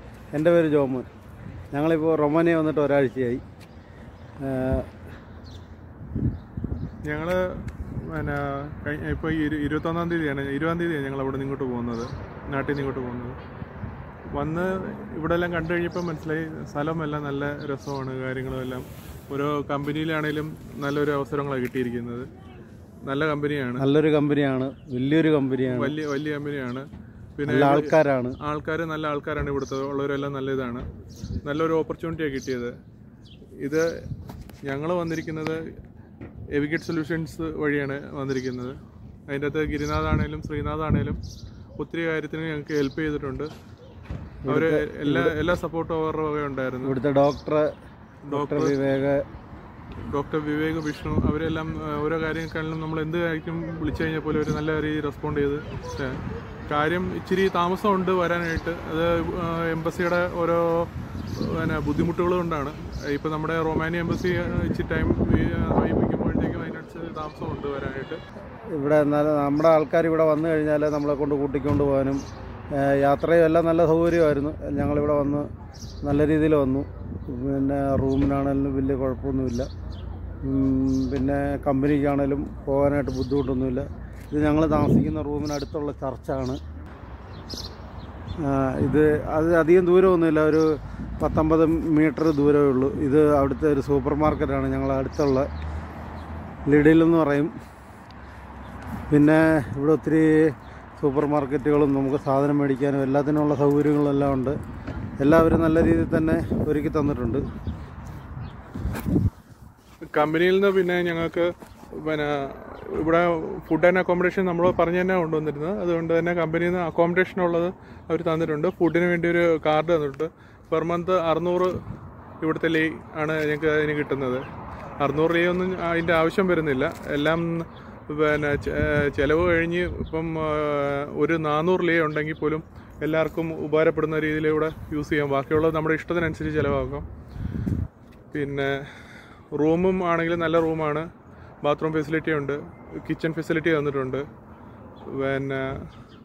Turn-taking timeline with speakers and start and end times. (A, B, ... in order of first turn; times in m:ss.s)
0:00.3-0:01.1 A
0:01.7-0:03.4 A
0:04.4-0:04.9 A
0:07.0-0:13.4 B
0:14.3-0:22.3 B
0:23.0-0:23.8 B
0:23.8-0:26.0 A
0:25.6-0:30.9 B
0:27.5-0:28.4 A
0:31.4-0:32.8 B
0:33.6-0:34.0 B
0:34.6-0:35.6 B
0:36.5-0:41.2 B
0:41.8-0:43.5 B
0:44.4-0:45.3 A
0:44.5-0:46.9 B
0:46.8-0:47.7 A
0:48.2-0:48.8 B
0:48.3-0:49.2 A
0:50.1-1:08.2 B
1:08.7-1:12.2 A
1:12.7-1:15.5 A
1:16.0-1:19.7 A
1:20.4-1:26.6 A
1:28.4-1:35.5 A
1:36.6-1:37.5 A
1:39.1-1:44.6 A
1:45.2-1:47.4 A
1:50.0-2:01.8 B
2:02.4-2:04.4 B
2:05.0-2:17.0 B
2:18.3-2:21.1 B
2:21.6-2:24.2 B
2:25.1-2:25.9 B